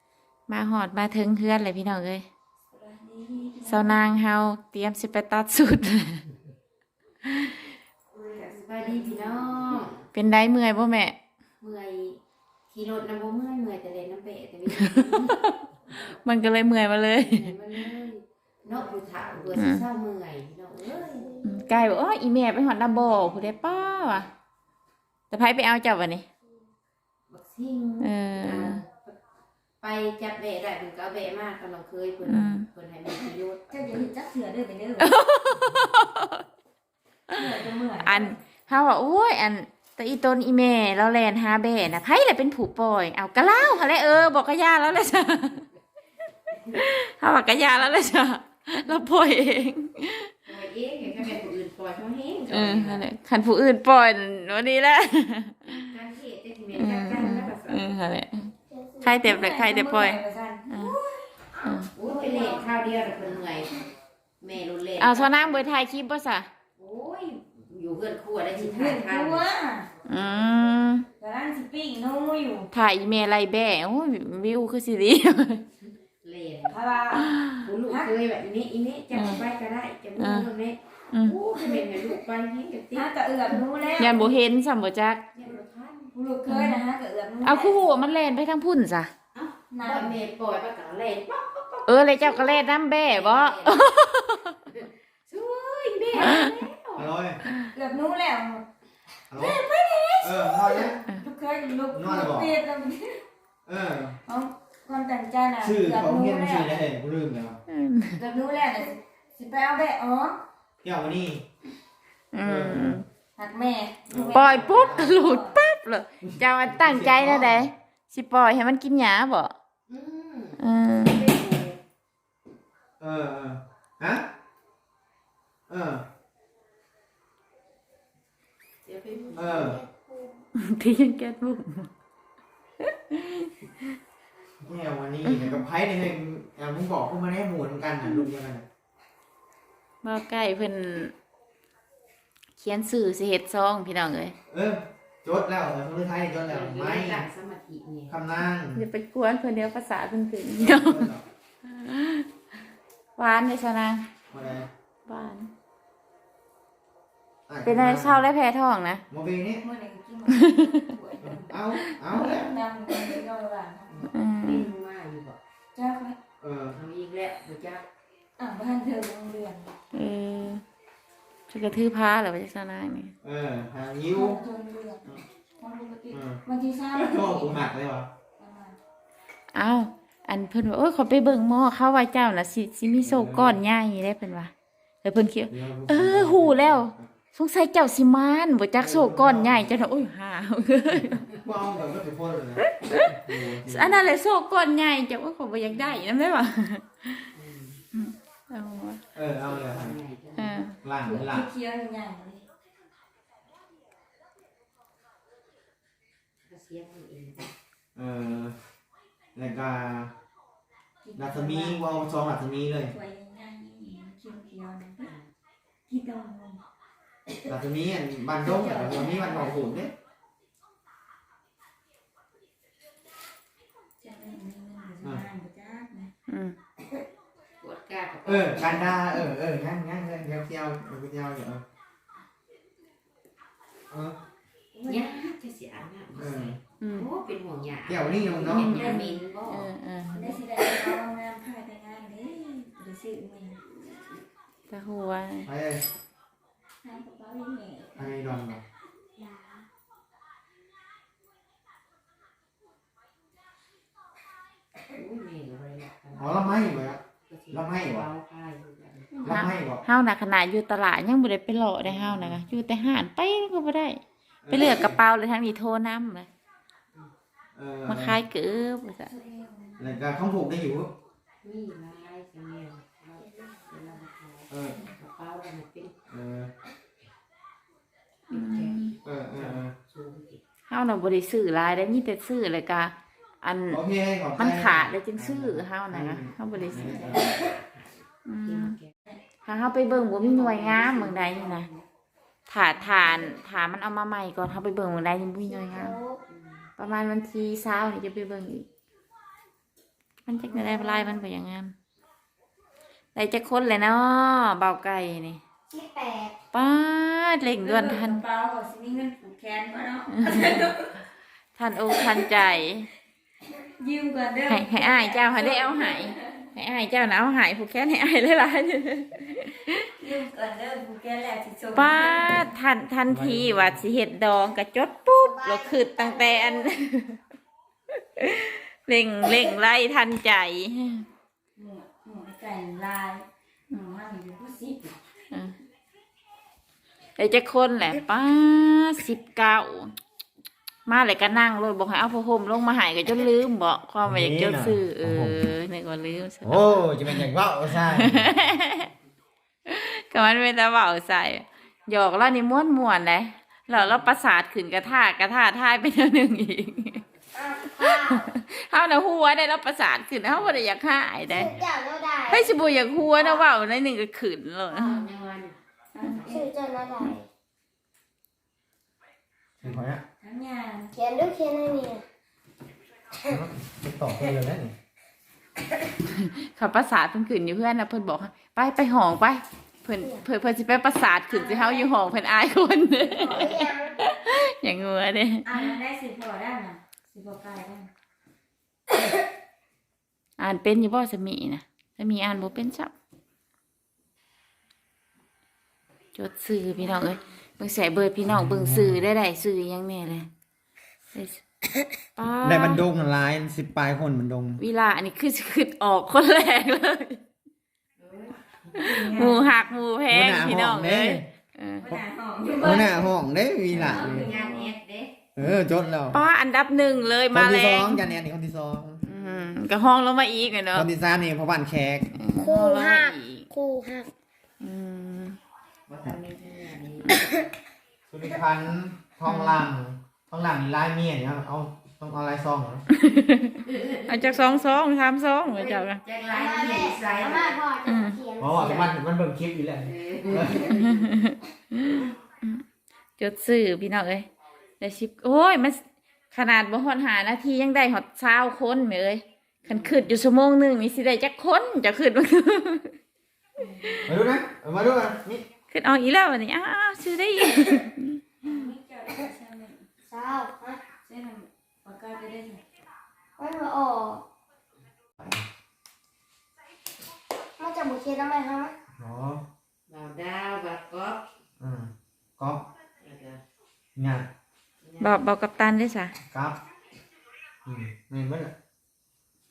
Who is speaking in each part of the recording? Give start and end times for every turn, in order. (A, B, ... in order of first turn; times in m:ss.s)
0:00.5-0:02.3 A
0:02.7-0:04.1 B
0:03.7-0:06.2 A
0:07.2-0:07.7 A
0:08.2-0:09.8 B
0:08.5-0:10.0 C
0:10.1-0:11.2 A
0:11.6-0:12.2 C
0:12.7-0:15.4 C
0:14.8-0:17.5 A
0:17.2-0:21.3 C
0:18.7-0:19.6 B
0:19.6-0:19.8 A
0:20.8-0:21.4 B
0:21.4-0:24.3 A
0:25.3-0:26.3 A
0:27.3-0:29.2 C
0:28.0-0:28.8 A
0:29.8-0:34.1 C
0:32.3-0:32.7 A
0:33.7-0:35.1 B
0:35.0-0:36.4 A
0:37.3-0:38.4 B
0:38.0-0:45.7 A
0:46.6-0:50.3 A
0:50.4-0:53.0 C
0:52.5-0:55.9 A
0:55.7-0:57.9 C
0:56.7-0:58.5 A
0:58.7-0:59.2 D
0:59.0-1:01.0 A
0:59.2-1:01.3 B
1:01.6-1:01.9 A
1:02.0-1:03.3 B
1:02.0-1:03.8 C
1:04.4-1:05.7 C
1:05.0-1:06.5 A
1:06.8-1:09.4 C
1:08.5-1:09.9 B
1:10.0-1:10.8 C
1:10.1-1:11.1 A
1:11.2-1:12.7 B
1:12.7-1:15.6 A
1:16.1-1:16.8 C
1:16.7-1:18.1 B
1:17.3-1:17.6 A
1:17.6-1:23.1 C
1:19.1-1:19.4 A
1:20.2-1:20.5 A
1:21.1-1:21.4 A
1:21.6-1:21.9 B
1:22.9-1:24.4 B
1:24.0-1:25.2 A
1:25.4-1:26.1 C
1:26.1-1:27.8 B
1:26.5-1:26.8 A
1:27.4-1:29.1 A
1:29.4-1:33.9 C
1:29.7-1:30.2 B
1:31.9-1:34.6 A
1:34.7-1:37.1 C
1:36.1-1:36.5 B
1:36.2-1:36.5 A
1:37.0-1:37.4 E
1:37.7-1:38.6 B
1:39.3-1:39.6 E
1:39.3-1:43.2 B
1:40.2-1:41.0 E
1:41.9-1:42.6 E
1:43.7-1:44.2 E
1:44.3-1:46.7 B
1:45.6-1:47.6 E
1:47.7-1:48.2 A
1:48.2-1:50.4 B
1:50.8-1:51.4 E
1:52.3-1:53.1 A
1:52.4-1:53.0 E
1:53.4-1:55.6 B
1:54.1-1:55.2 E
1:54.3-1:59.5 A
1:56.2-1:57.7 E
1:59.9-2:01.8 C
2:00.6-2:01.3 A
2:03.0-2:04.3 E
2:05.7-2:06.0 E
2:08.9-2:09.8 C
2:09.4-2:09.8 E
2:09.5-2:10.4 D
2:10.6-2:11.9 A
2:12.8-2:13.8 A
2:14.6-2:18.6 E
2:15.2-2:15.6 A
2:20.0-2:21.1 A
2:22.6-2:24.4 A
2:24.5-2:27.2 E
2:26.5-2:28.2 C
2:28.1-2:28.8 E
2:28.8-2:31.1 A
2:30.6-2:31.2 E
2:31.6-2:32.3 A
2:33.2-2:34.1 A
2:34.3-2:34.7 E
2:35.1-2:35.5 A
2:37.5-2:38.2 E
2:37.6-2:39.0 A
2:39.1-2:39.6 E
2:39.6-2:41.6 B
2:40.3-2:40.8 A
2:41.2-2:42.5 E
2:42.1-2:44.0 B
2:42.1-2:42.6 A
2:44.0-2:45.4 C
2:44.1-2:44.7 A
2:45.8-2:46.2 B
2:46.4-2:46.8 E
2:46.7-2:47.8 C
2:48.4-2:49.8 B
2:49.9-2:50.6 A
2:51.5-2:53.1 A
2:53.2-2:54.4 E
2:54.1-2:57.7 B
2:56.1-2:58.1 E
2:58.4-2:58.8 B
2:59.5-3:04.5 A
3:03.0-3:03.6 E
3:05.0-3:11.2 A
3:05.5-3:07.1 E
3:08.8-3:09.8 E
3:11.2-3:14.0 E
3:12.7-3:17.3 A
3:15.7-3:16.0 C
3:17.3-3:17.8 C
3:17.9-3:19.0 A
3:19.1-3:20.0 E
3:19.4-3:20.6 C
3:20.4-3:20.8 A
3:20.8-3:21.5 E
3:21.0-3:22.5 B
3:26.4-3:27.5 C
3:28.0-3:28.6 E
3:29.4-3:30.1 E
3:31.0-3:31.8 B
3:31.2-3:32.9 E
3:32.9-3:35.1 B
3:35.0-3:35.3 C
3:35.9-3:36.6 B
3:37.4-3:39.9 E
3:38.4-3:39.8 B
3:44.0-3:46.1 B
3:46.3-3:46.6 A
3:47.6-3:49.0 C
3:48.2-3:51.6 E
3:53.9-3:54.2 E
3:54.7-3:55.1 B
3:54.9-3:59.7 C
3:56.2-3:56.6 E
3:56.8-3:57.1 A
3:57.9-3:59.0 E
3:58.5-3:59.2 B
3:58.5-4:00.4 A
4:00.1-4:03.6 B
4:04.7-4:05.5 A
4:05.5-4:05.8 E
4:06.8-4:08.1 B
4:08.0-4:08.6 E
4:09.2-4:09.6 D
4:14.9-4:19.3 C
4:16.2-4:18.1 E
4:19.2-4:19.8 E
4:19.2-4:26.3 A
4:21.8-4:22.4 E
4:24.4-4:25.0 E
4:27.6-4:28.2 E
4:27.9-4:29.1 A
4:29.0-4:30.0 B
4:29.8-4:30.9 E
4:31.4-4:36.0 C
4:34.5-4:34.8 E
4:36.1-4:36.5 E
4:38.3-4:40.4 C
4:38.3-4:38.9 A
4:39.0-4:39.8 E
4:40.7-4:43.8 A
4:43.7-4:47.4 E
4:44.4-4:47.2 A
4:46.6-4:47.7 C
4:48.2-4:48.8 A
4:48.5-4:48.9 C
4:49.4-4:51.7 A
4:50.0-4:51.8 C
4:52.5-4:56.0 A
4:55.5-4:56.2 D
4:56.3-4:56.7 C
4:56.8-4:58.7 A
5:00.2-5:01.7 A
5:00.5-5:01.1 C
5:03.2-5:05.4 A
5:05.7-5:06.4 D
5:06.5-5:08.2 A
5:07.6-5:10.9 B
5:10.1-5:10.8 A
5:11.6-5:12.9 A
5:13.8-5:16.4 B
5:14.5-5:19.8 A
5:19.9-5:22.5 B
5:21.8-5:27.2 A
5:23.1-5:23.8 E
5:25.2-5:26.7 D
5:28.2-5:31.1 A
5:31.6-5:35.0 B
5:37.2-5:39.9 A
5:40.9-5:48.9 A
5:44.0-5:45.4 E
5:46.4-5:48.3 E
5:49.7-5:57.0 A
5:53.7-5:54.1 C
5:57.3-5:58.3 D
5:57.8-6:01.6 A
6:01.3-6:02.5 D
6:02.3-6:05.0 A
6:03.2-6:03.5 D
6:04.7-6:05.6 C
6:05.9-6:06.6 B
6:06.3-6:07.3 D
6:09.6-6:10.0 E
6:09.7-6:10.9 B
6:10.9-6:12.0 D
6:13.2-6:14.7 E
6:16.0-6:25.7 A
6:21.3-6:21.9 B
6:23.0-6:23.7 B
6:23.2-6:24.0 D
6:25.4-6:27.9 B
6:30.4-6:32.9 A
6:36.2-6:40.3 A
6:38.2-6:39.0 E
6:41.1-6:41.4 A
6:42.2-6:42.8 A
6:42.4-6:44.6 E
6:44.6-6:47.2 A
6:48.0-6:48.8 C
6:48.7-6:49.6 B
6:48.8-6:51.9 A
6:50.1-6:51.3 E
6:51.8-6:53.1 B
6:52.5-6:54.3 E
6:53.8-6:54.7 B
6:53.8-6:55.2 C
6:55.4-6:56.2 E
6:56.1-6:58.1 A
6:57.3-6:59.0 E
6:59.1-7:00.9 A
7:00.7-7:02.2 E
7:02.2-7:03.5 A
7:02.3-7:04.1 D
7:04.6-7:05.4 A
7:05.9-7:07.4 C
7:08.1-7:12.9 E
7:09.3-7:09.6 A
7:12.9-7:16.0 A
7:13.6-7:14.8 C
7:15.4-7:17.6 C
7:16.3-7:18.9 D
7:17.9-7:18.2 A
7:18.4-7:20.8 E
7:19.8-7:21.1 C
7:20.6-7:22.6 A
7:23.2-7:24.3 A
7:24.8-7:32.9 A
7:29.7-7:30.1 C
7:33.6-7:34.0 B
7:34.1-7:35.4 E
7:35.7-7:38.4 A
7:38.4-7:39.9 B
7:40.1-7:40.8 D
7:41.0-7:42.6 B
7:43.4-7:44.2 D
7:45.2-7:45.4 E
7:47.6-7:48.7 D
7:49.0-7:49.4 E
7:49.9-7:51.3 C
7:51.6-7:52.7 E
7:53.0-7:53.4 C
7:54.0-7:54.3 E
7:54.8-7:55.2 C
7:55.0-7:56.1 A
7:56.3-7:56.6 E
7:57.6-7:58.5 E